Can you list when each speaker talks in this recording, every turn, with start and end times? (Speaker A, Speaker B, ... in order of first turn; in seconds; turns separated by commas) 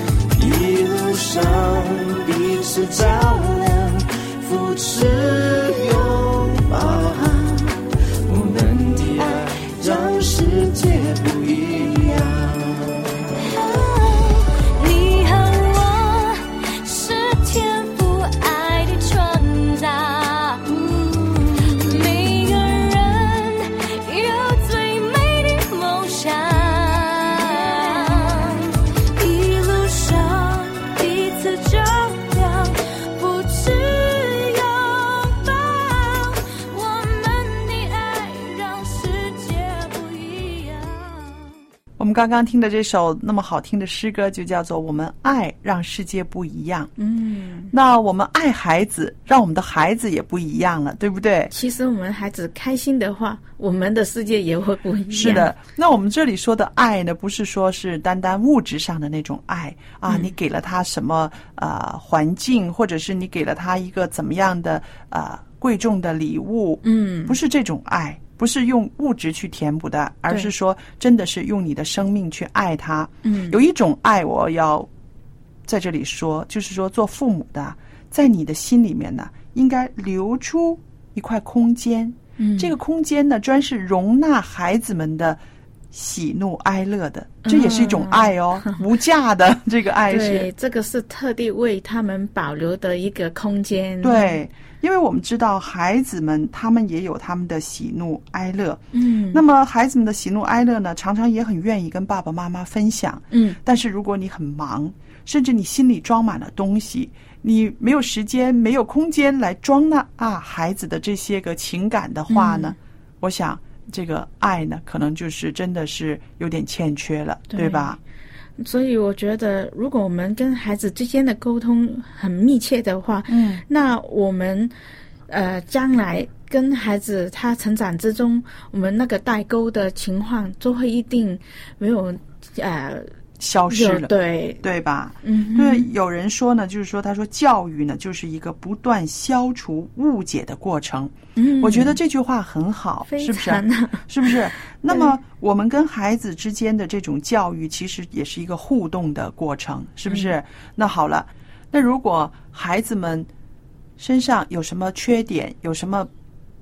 Speaker A: 0.3-13.2, Speaker B: 13.4-41.5, Speaker C: 42.0-46.9, Speaker D: 47.0-47.7, Speaker C: 47.7-51.5, Speaker D: 51.5-55.5, Speaker C: 55.1-74.9, Speaker D: 66.8-67.3, Speaker D: 73.2-73.6, Speaker C: 75.7-85.4, Speaker D: 82.4-82.7, Speaker C: 85.9-90.5, Speaker D: 87.4-88.8, Speaker D: 90.1-94.3, Speaker C: 94.0-118.0, Speaker D: 98.9-99.4, Speaker D: 103.3-103.6, Speaker D: 112.3-112.8, Speaker D: 117.5-117.9, Speaker D: 118.6-124.7, Speaker C: 123.3-123.6, Speaker D: 125.3-133.1, Speaker C: 133.4-153.3, Speaker D: 133.7-134.6, Speaker D: 135.2-135.9, Speaker D: 141.3-142.0, Speaker D: 143.1-144.4, Speaker D: 150.1-150.3, Speaker C: 154.0-156.1